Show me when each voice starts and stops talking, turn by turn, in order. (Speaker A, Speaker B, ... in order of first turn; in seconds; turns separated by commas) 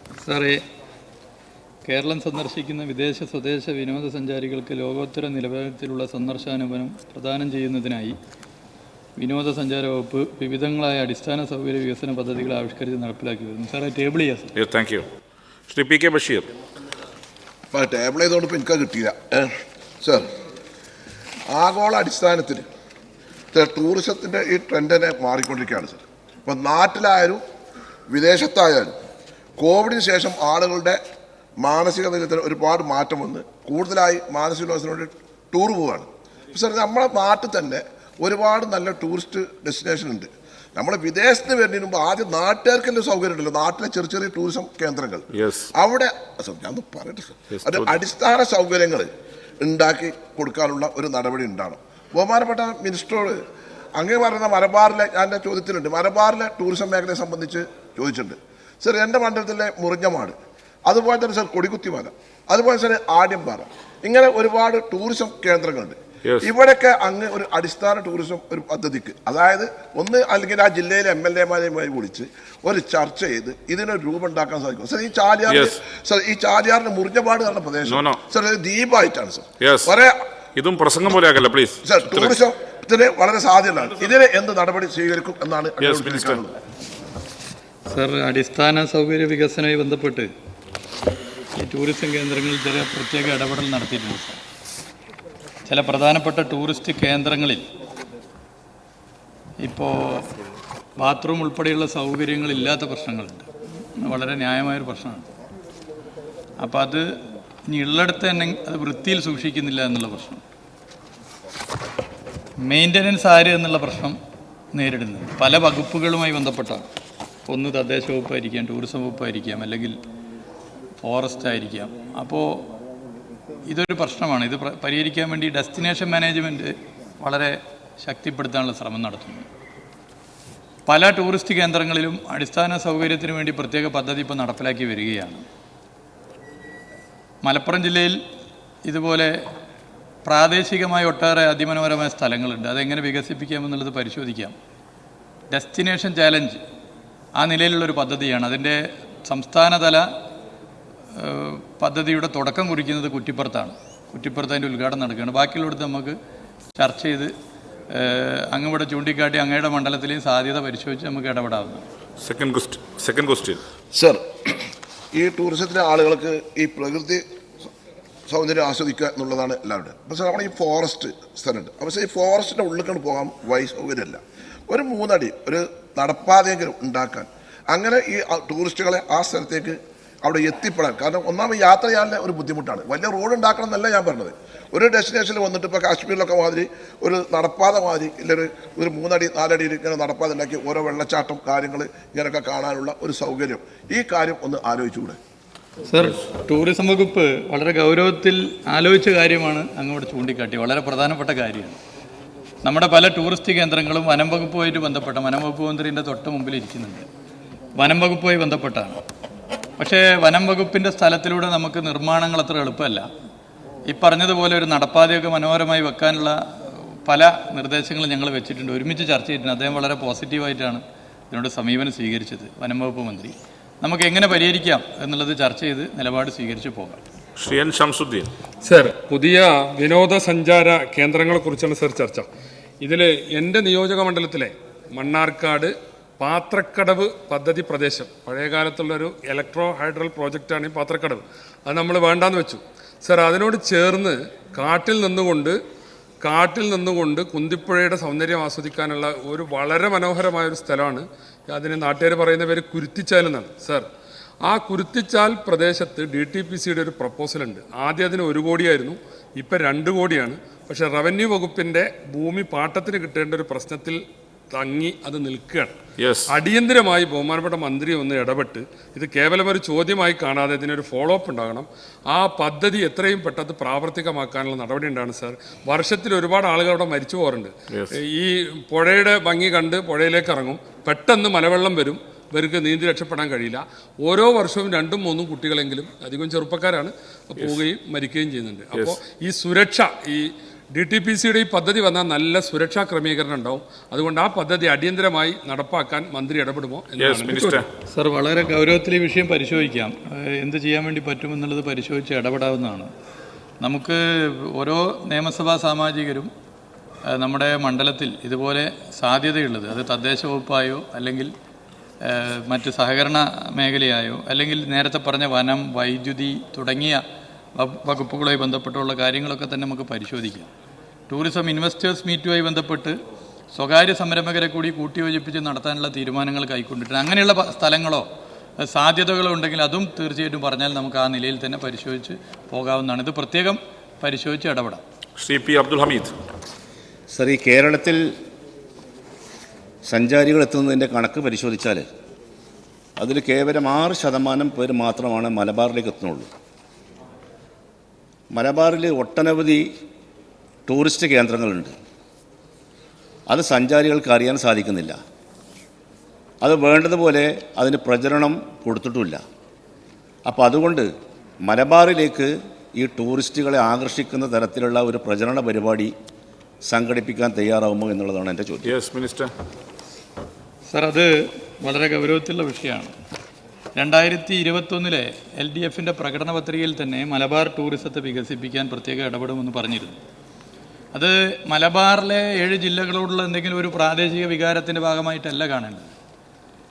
Speaker A: 0.2-0.6, Speaker A: 1.9-8.2, Speaker A: 9.2-14.5, Speaker B: 14.6-15.1, Speaker B: 15.7-16.5, Speaker C: 17.7-19.5, Speaker C: 21.5-22.6, Speaker C: 23.5-27.4, Speaker C: 28.1-29.0, Speaker C: 29.6-31.0, Speaker C: 31.6-45.2, Speaker B: 45.3-45.7, Speaker C: 45.8-49.1, Speaker B: 47.5-48.0, Speaker C: 49.6-53.4, Speaker C: 54.0-80.1, Speaker B: 66.2-66.5, Speaker B: 75.5-75.8, Speaker B: 77.8-78.2, Speaker B: 79.6-79.9, Speaker B: 80.5-82.4, Speaker C: 81.8-86.5, Speaker B: 85.8-86.4, Speaker A: 87.9-90.3, Speaker A: 91.6-94.4, Speaker A: 95.7-97.7, Speaker A: 99.6-100.3, Speaker A: 101.0-103.5, Speaker A: 104.0-105.3, Speaker A: 106.6-107.1, Speaker A: 107.7-110.4, Speaker A: 112.6-114.2, Speaker A: 114.7-116.8, Speaker A: 117.5-120.0, Speaker A: 121.0-122.7, Speaker A: 123.7-129.5, Speaker A: 130.8-135.4, Speaker A: 137.4-138.2, Speaker A: 138.8-139.4, Speaker A: 140.2-144.5, Speaker A: 145.5-146.6, Speaker A: 147.4-150.1, Speaker A: 151.2-156.2, Speaker A: 156.8-157.3, Speaker A: 157.9-161.8, Speaker B: 162.2-163.6, Speaker C: 163.9-164.2, Speaker C: 165.1-167.2, Speaker C: 168.3-195.2, Speaker A: 195.9-201.8, Speaker A: 202.6-207.1, Speaker A: 207.8-209.0, Speaker A: 209.8-213.1, Speaker A: 213.9-227.0, Speaker B: 227.4-228.3, Speaker D: 228.6-232.3, Speaker D: 232.8-245.6, Speaker D: 246.2-253.8, Speaker D: 254.4-265.7, Speaker B: 266.0-266.3, Speaker D: 266.3-297.6, Speaker B: 297.0-297.7, Speaker A: 297.9-302.9, Speaker A: 303.6-306.3, Speaker A: 307.1-311.3, Speaker A: 312.0-317.0, Speaker A: 317.6-320.5, Speaker A: 321.1-323.0, Speaker A: 323.5-328.1, Speaker A: 328.6-334.8, Speaker B: 335.2-336.1, Speaker E: 337.1-338.0, Speaker E: 339.9-341.8, Speaker E: 343.0-346.3, Speaker E: 348.3-349.6, Speaker E: 350.7-351.7, Speaker E: 353.3-355.0, Speaker E: 356.4-359.2, Speaker E: 360.2-360.9, Speaker E: 361.4-365.9, Speaker E: 366.7-368.7, Speaker B: 368.6-369.3, Speaker A: 370.7-372.9, Speaker A: 373.8-380.0, Speaker A: 380.9-385.9